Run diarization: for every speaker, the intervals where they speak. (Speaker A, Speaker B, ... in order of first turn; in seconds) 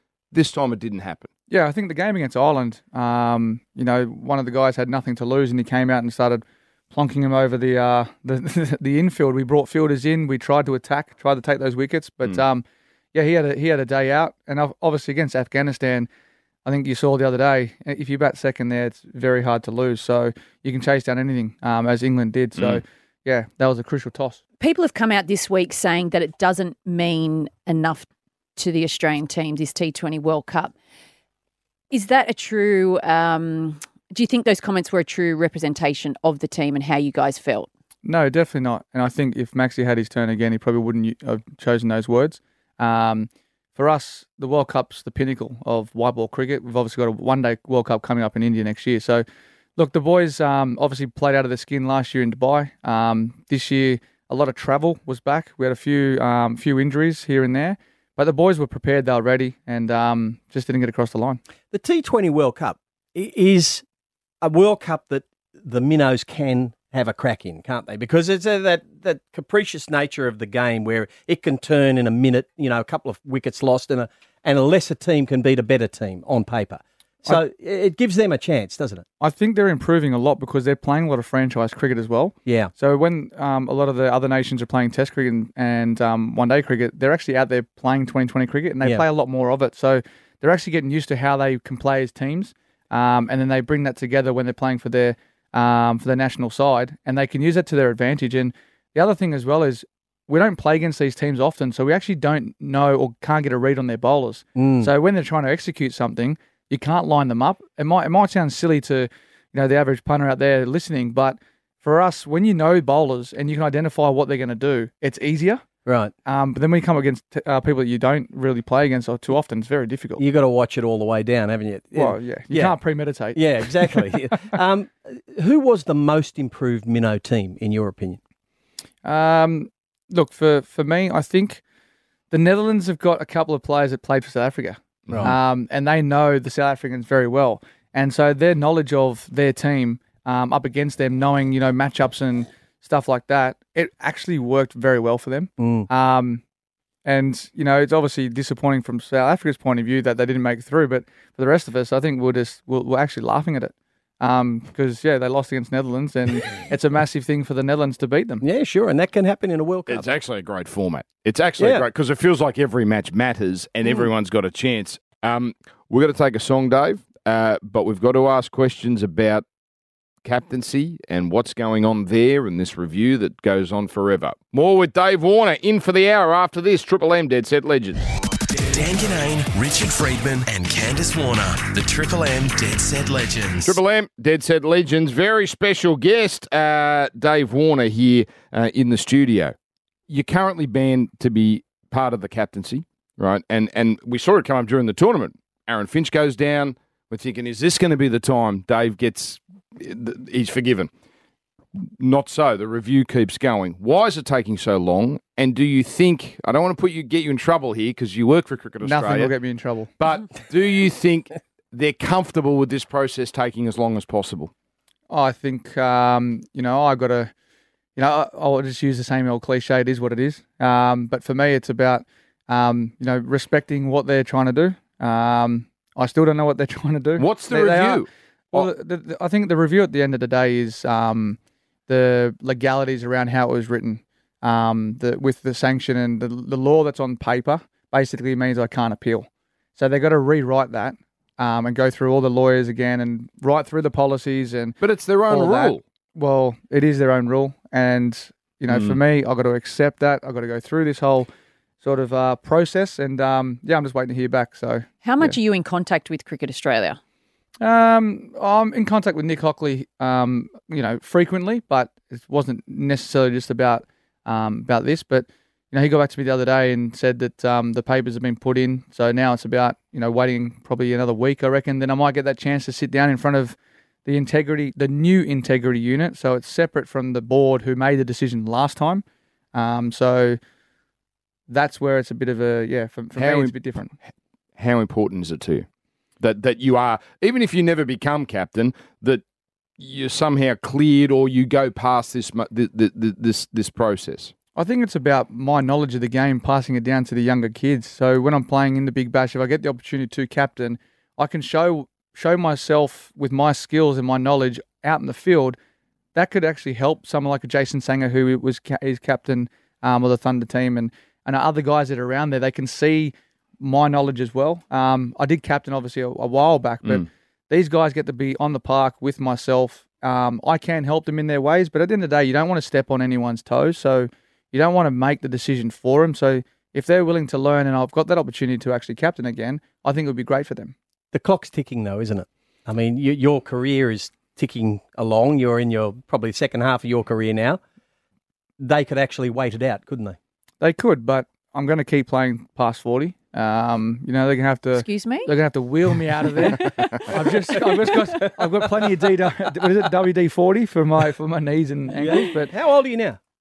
Speaker A: 0.3-1.3, 22.6-22.8, 135.1-135.4, 159.9-169.4, 170.2-178.0, 183.7-189.6, 190.1-200.9, 201.8-209.3, 210.0-214.5, 227.2-228.7, 244.8-245.8, 248.7-249.0, 283.1-283.7, 284.6-285.7, 286.2-289.2, 289.8-294.3
Speaker B: 1.5-16.1, 16.6-24.4, 38.0-49.2, 49.8-61.4, 79.2-115.6, 116.2-120.2, 121.9-124.1, 129.0-131.6, 132.3-146.4, 147.1-158.4, 208.8-209.9, 215.1-217.3, 218.0-251.3, 251.8-254.9, 257.6-280.4, 281.5-283.9, 294.5-305.6, 306.1-330.8, 340.6-352.5
Speaker C: 24.6-30.7, 31.9-37.7, 255.0-257.0, 344.8-345.3
Speaker D: 61.7-63.8, 64.4-79.1, 82.5-82.7, 104.6-104.9, 115.9-116.1, 120.2-122.8, 123.3-128.2, 145.6-145.9, 158.4-160.1, 161.6-161.8, 331.1-337.6, 338.6-340.2, 347.6-348.5, 351.9-353.2
Speaker E: 178.5-183.8